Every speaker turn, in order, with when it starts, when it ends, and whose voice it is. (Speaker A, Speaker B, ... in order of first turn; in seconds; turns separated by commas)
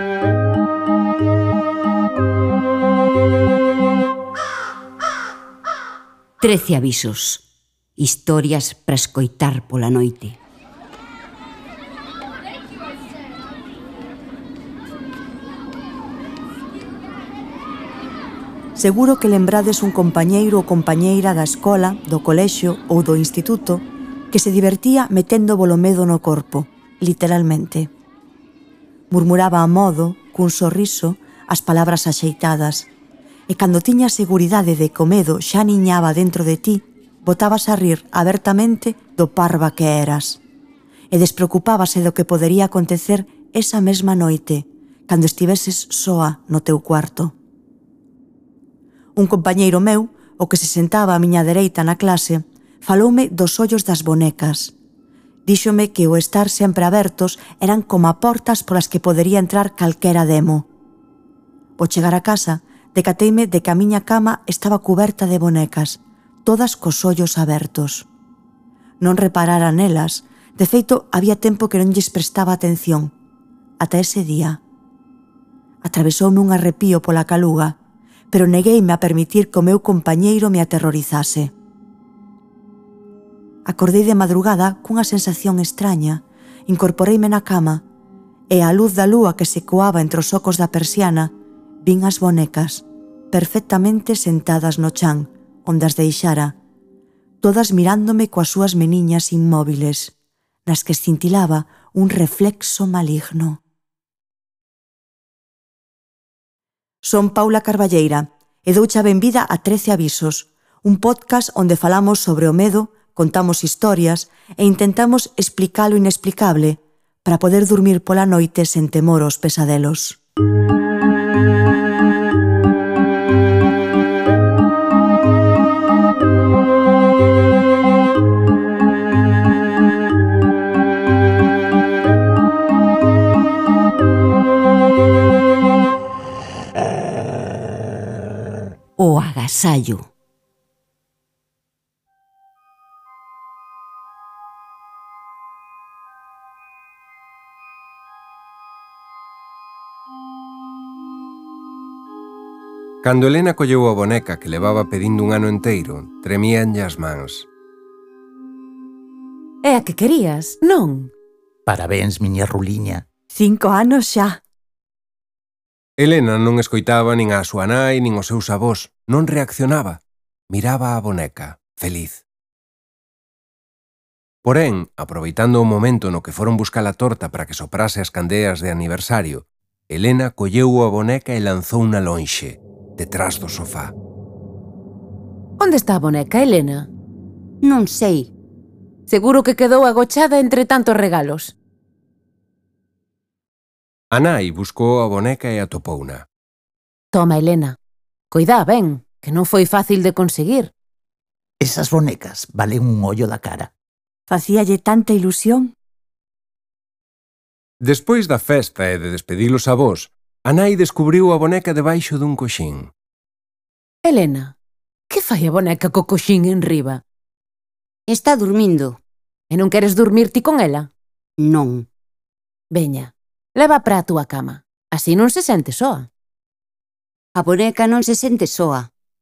Speaker A: 6.4-7.4, Speaker A: 8.0-10.4, Speaker B: 18.7-27.9, Speaker B: 29.1-32.9, Speaker B: 33.5-40.4, Speaker B: 41.1-47.3, Speaker B: 49.1-54.7, Speaker B: 55.5-60.7, Speaker B: 61.8-68.1, Speaker B: 69.0-73.1, Speaker B: 73.8-74.6, Speaker B: 75.8-77.8, Speaker B: 78.3-81.5, Speaker B: 83.6-87.8, Speaker B: 88.5-96.5, Speaker B: 97.4-100.1, Speaker B: 100.7-103.6, Speaker B: 107.0-120.2, Speaker A: 139.0-140.1, Speaker C: 153.0-157.5, Speaker D: 159.6-161.1, Speaker E: 161.7-163.0, Speaker B: 163.3-164.4, Speaker C: 166.0-172.2, Speaker C: 174.4-183.9, Speaker D: 185.6-186.9, Speaker A: 187.6-188.3, Speaker D: 189.1-191.5, Speaker C: 194.1-196.2, Speaker D: 197.1-197.8, Speaker D: 198.3-200.7, Speaker E: 201.6-203.7, Speaker B: 204.3-205.7, Speaker C: 207.8-212.9, Speaker D: 214.0-214.5, Speaker D: 215.1-217.0, Speaker A: 218.1-219.0, Speaker D: 219.5-220.9, Speaker A: 221.4-221.9, Speaker D: 222.7-226.1, Speaker A: 227.3-228.9